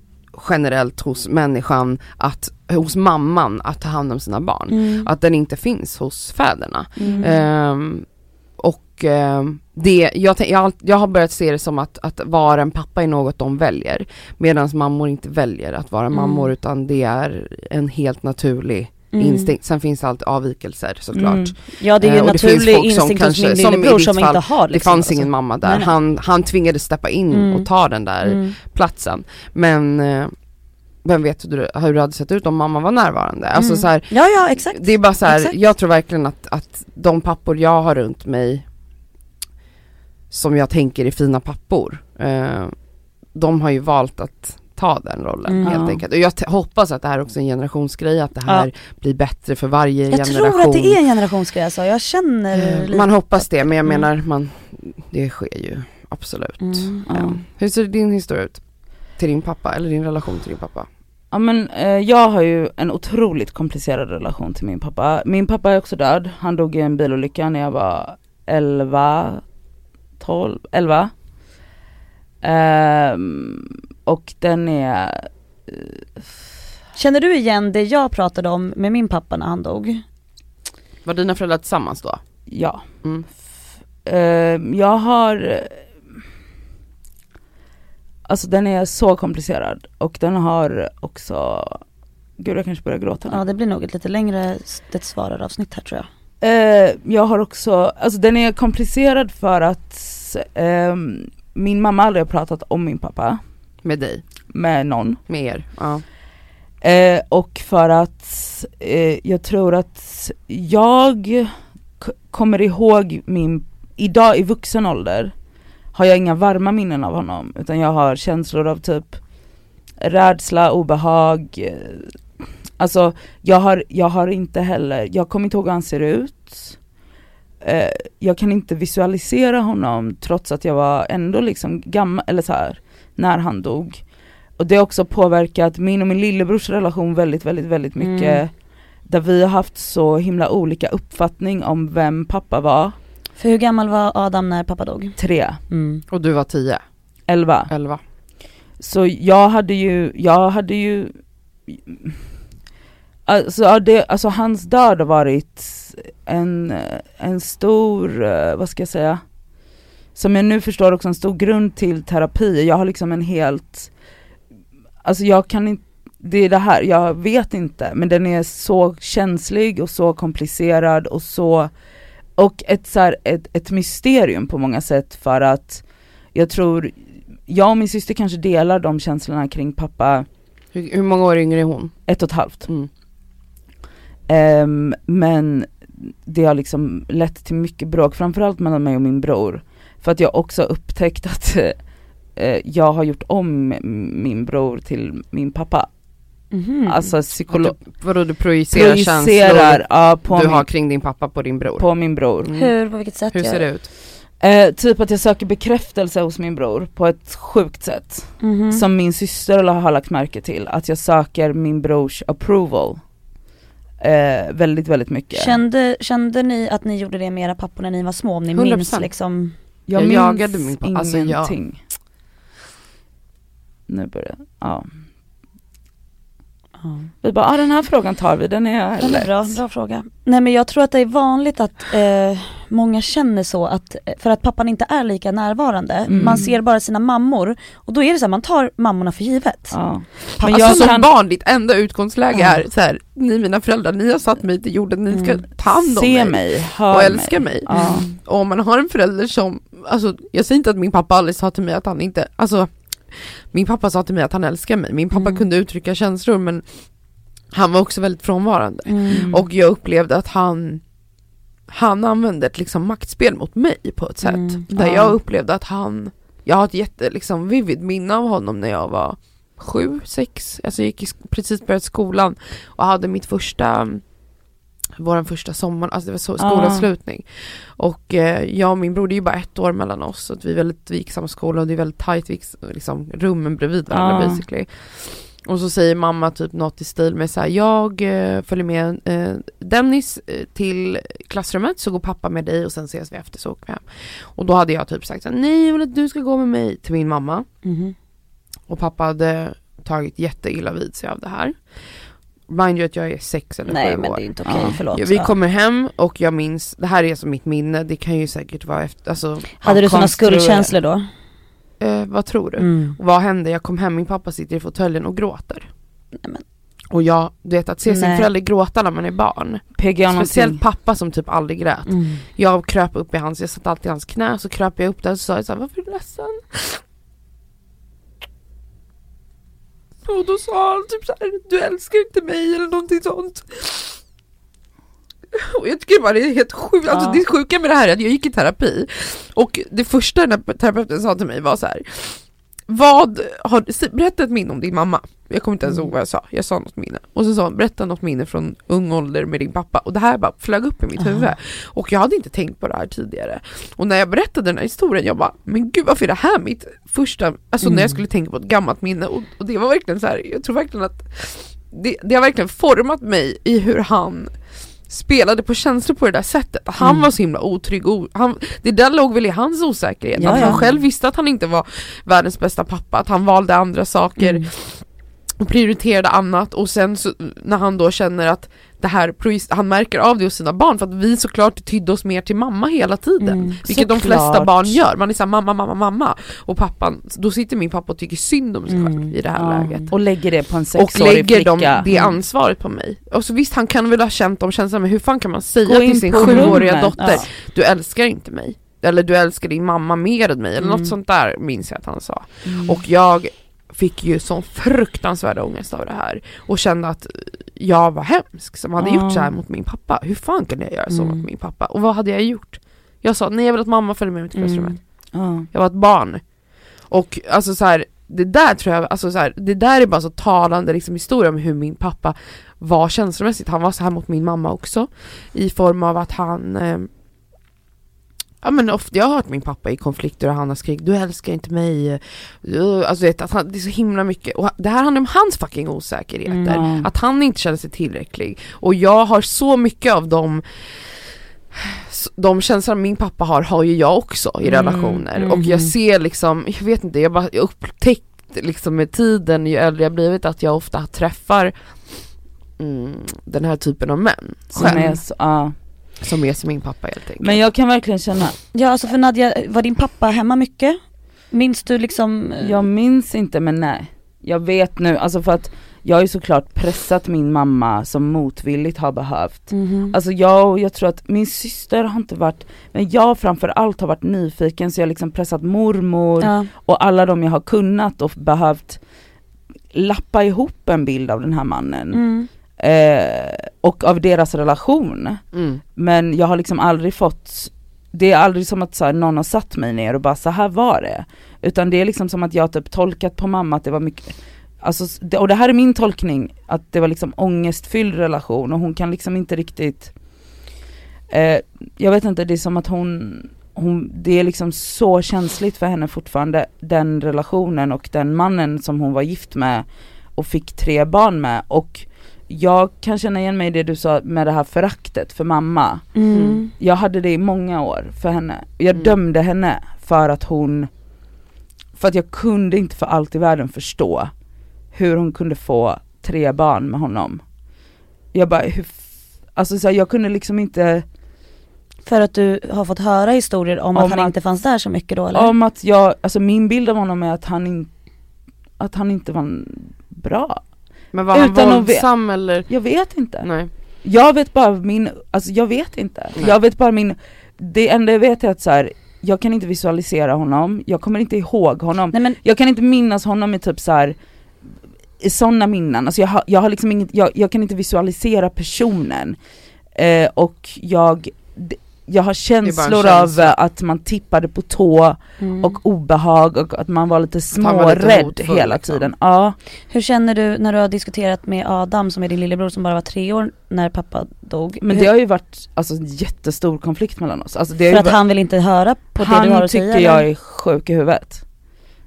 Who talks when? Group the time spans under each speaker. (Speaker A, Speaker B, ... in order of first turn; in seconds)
Speaker A: 0.3-8.1, 8.6-30.4, 31.0-38.6, 40.3-42.8, 43.3-51.0, 52.5-58.6, 59.1-60.9, 81.0-82.2, 103.8-104.2, 105.3-106.0, 146.1-146.8, 147.7-148.0, 180.7-182.0, 197.5-201.9, 202.4-202.8, 203.3-203.9, 218.5-219.1, 220.0-221.6, 240.4-260.8, 261.7-274.1, 275.0-297.5, 298.7-301.6, 302.5-309.6, 311.8-315.7, 316.9-326.8, 330.0-334.0, 335.3-374.9, 375.4-389.9, 390.8-426.9, 428.4-451.9, 452.6-455.0, 456.0-457.4, 485.3-485.6, 516.1-516.4, 540.9-542.5, 543.2-543.5, 562.4-563.4, 567.4-568.9
Speaker B: 4.7-5.1, 7.0-7.3, 16.1-16.5, 19.1-19.5, 21.7-25.9, 27.3-27.7, 28.2-28.5, 33.6-35.5, 45.5-45.8, 50.1-54.0, 56.6-57.1, 77.0-80.0, 93.3-96.1, 138.0-138.4, 143.4-145.2, 145.7-146.0, 196.5-197.1, 202.5-203.6, 208.4-208.8, 215.3-219.5, 226.8-227.1, 229.0-240.9, 245.1-245.4, 247.7-248.1, 255.1-255.4, 258.9-259.3, 264.2-265.1, 297.6-297.9, 303.7-305.4, 309.6-311.1, 312.6-313.0, 316.2-316.4, 317.9-318.3, 321.9-322.2, 351.0-351.3, 357.6-358.0, 366.8-367.0, 370.2-370.6, 374.2-374.5, 383.2-383.6, 388.7-389.1, 391.9-392.2, 396.2-397.3, 400.6-400.9, 410.9-411.2, 414.4-414.8, 436.2-436.6, 445.1-445.7, 458.5-462.6, 469.5-469.9, 476.2-476.5, 481.9-482.3, 515.9-516.5, 531.9-535.3, 551.9-552.2, 565.2-565.6, 569.7-574.9, 577.7-580.1
Speaker C: 7.0-7.3, 21.1-21.5, 45.6-46.0, 57.1-57.4, 61.3-69.4, 70.2-71.1, 72.4-76.0, 82.5-82.8, 84.0-85.9, 88.3-91.8, 92.4-93.4, 96.4-103.4, 104.5-105.2, 106.8-115.3, 115.9-119.2, 120.0-126.8, 127.6-143.0, 145.2-145.6, 147.3-147.7, 148.8-151.2, 151.7-152.2, 153.2-159.2, 160.1-163.9, 165.0-171.7, 172.4-175.8, 176.3-176.9, 177.5-180.2, 182.1-182.7, 184.3-191.8, 192.4-195.9, 196.9-198.0, 198.7-200.7, 201.8-202.5, 204.4-213.0, 214.0-215.6, 219.9-221.8, 223.9-224.9, 227.2-229.5, 236.1-236.5, 239.7-241.1, 245.6-248.1, 259.1-259.4, 276.4-276.9, 283.9-284.4, 304.4-304.8, 309.6-310.7, 319.8-320.6, 370.3-370.6, 383.7-384.8, 389.4-391.9, 395.6-397.2, 402.5-402.8, 408.8-409.3, 415.1-415.5, 436.5-436.9, 444.4-445.1, 454.5-455.6, 457.2-458.4, 462.4-478.8, 479.7-485.2, 485.8-499.9, 501.1-520.7, 521.8-524.1, 524.7-527.2, 528.1-530.9, 533.8-534.1, 535.1-537.7, 538.6-540.5, 541.1-554.0, 555.0-559.2, 559.8-569.4, 574.6-578.0, 579.0-581.2